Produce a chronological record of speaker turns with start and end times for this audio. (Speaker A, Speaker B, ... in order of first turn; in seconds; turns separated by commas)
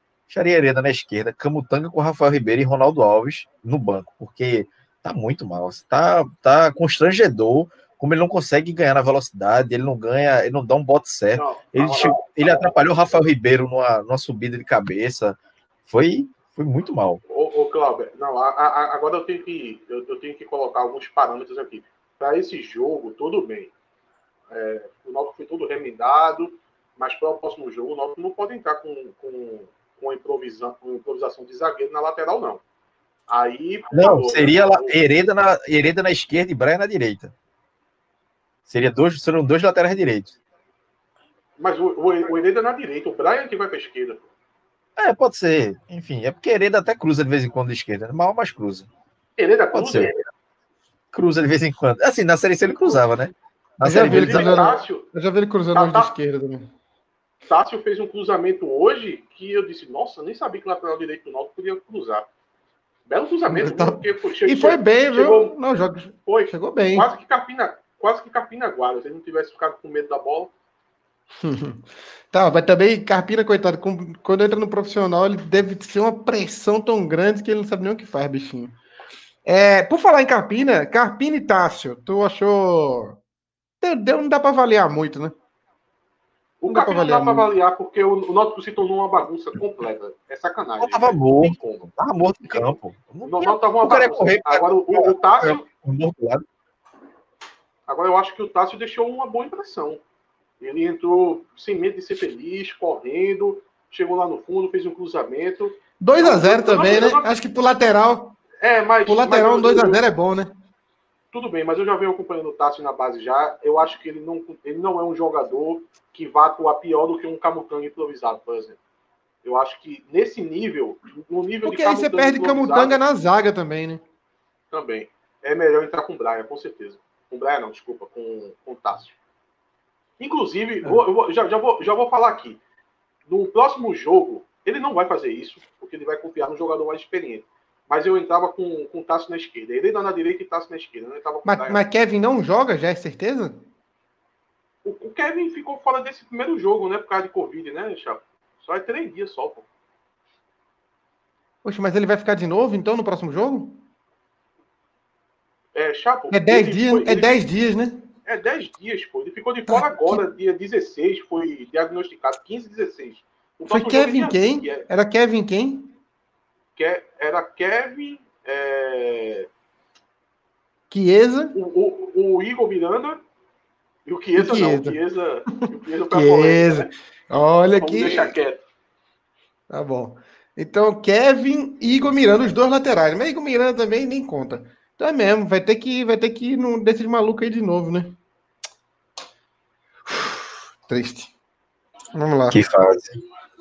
Speaker A: 0.3-17.2, Speaker B: 11.4-12.6, Speaker B: 17.3-23.7, Speaker B: 24.5-32.6, Speaker B: 33.3-35.0, Speaker A: 33.9-37.3, Speaker A: 38.7-40.4, Speaker B: 41.6-44.3, Speaker A: 45.0-48.9, Speaker B: 49.4-50.1, Speaker A: 49.7-50.2, Speaker A: 51.1-54.6, Speaker C: 53.8-56.7, Speaker B: 53.9-55.0, Speaker B: 55.7-56.1, Speaker B: 57.5-62.3, Speaker B: 63.1-70.5, Speaker C: 63.5-67.1, Speaker C: 71.4-78.8, Speaker C: 79.4-83.2, Speaker C: 83.8-85.3, Speaker B: 86.6-91.9, Speaker C: 86.7-87.5, Speaker A: 90.8-96.4, Speaker B: 92.5-95.7, Speaker B: 97.9-100.0, Speaker B: 100.6-107.3, Speaker C: 106.0-108.4, Speaker B: 108.6-110.0, Speaker C: 109.1-110.5, Speaker B: 111.3-118.8, Speaker B: 119.4-123.0, Speaker C: 121.6-124.0, Speaker B: 124.7-129.1, Speaker B: 130.2-132.6, Speaker B: 133.3-141.8, Speaker C: 141.4-143.6, Speaker B: 144.8-149.7, Speaker C: 151.6-153.8, Speaker B: 155.7-157.4, Speaker C: 156.3-158.1, Speaker B: 158.2-164.9, Speaker C: 159.7-160.2, Speaker C: 163.7-165.9, Speaker B: 166.8-169.5, Speaker C: 170.9-171.6, Speaker B: 171.5-173.2, Speaker B: 174.1-176.9, Speaker C: 174.3-175.0, Speaker C: 176.1-178.4, Speaker B: 177.8-178.6, Speaker C: 179.7-188.2, Speaker C: 190.1-191.3, Speaker C: 192.1-192.6, Speaker A: 192.5-193.2